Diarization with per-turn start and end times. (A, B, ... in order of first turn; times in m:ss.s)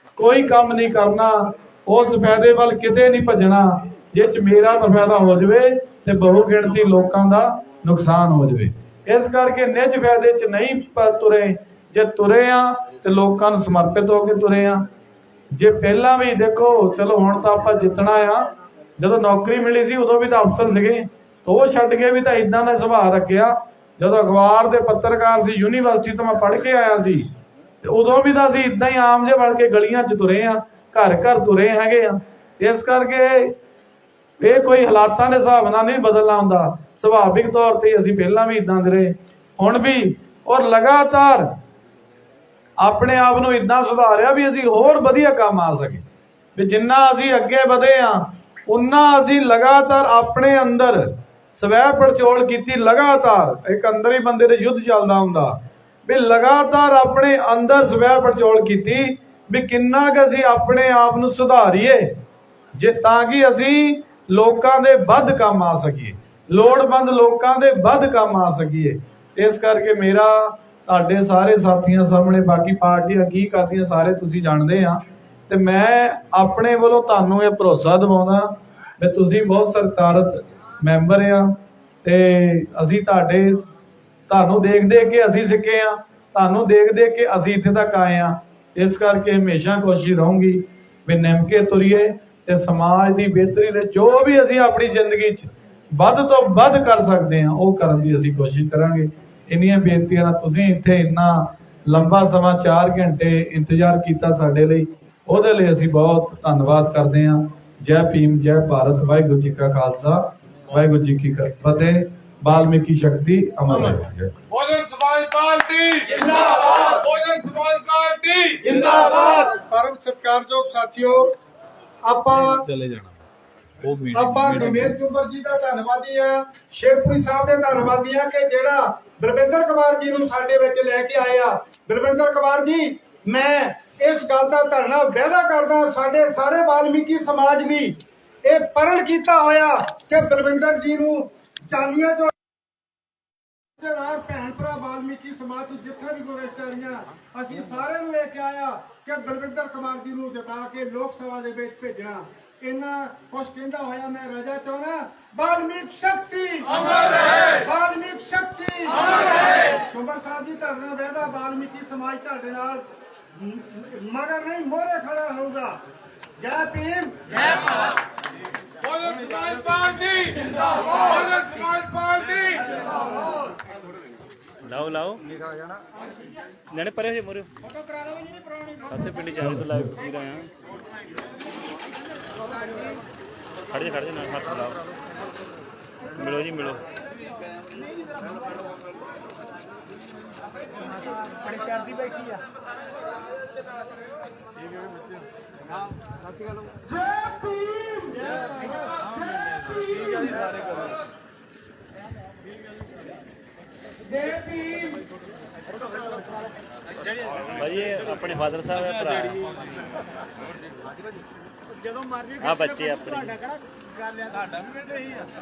0:00.2-0:14.8 A
0:15.5-0:27.3 A
0:27.8-0:33.6 A
0:34.4-0:41.5 A
0:42.8-0:46.0 A
0:46.6-1:02.1 A
1:02.8-1:23.6 A
1:24.3-1:54.3 A
1:54.5-1:56.3 B
1:56.1-1:56.9 C
1:56.8-1:58.8 B
1:58.6-2:01.3 C
2:02.0-2:02.6 C
2:02.3-2:03.2 A
2:03.8-2:05.0 A
2:04.1-2:22.3 C
2:23.8-2:45.8 C
2:46.4-2:47.3 C
2:48.8-2:52.7 B
2:54.6-2:55.2 D
2:56.7-2:57.5 D
2:57.6-2:59.5 E
2:58.9-3:00.5 D
2:59.4-2:59.9 A
3:03.7-3:04.8 D
3:06.1-3:06.8 D
3:11.0-3:12.4 E
3:16.9-3:18.7 E
3:19.4-3:20.4 E
3:24.0-3:25.0 E
3:27.5-3:29.5 D
3:31.9-3:34.6 E
3:32.4-3:33.4 D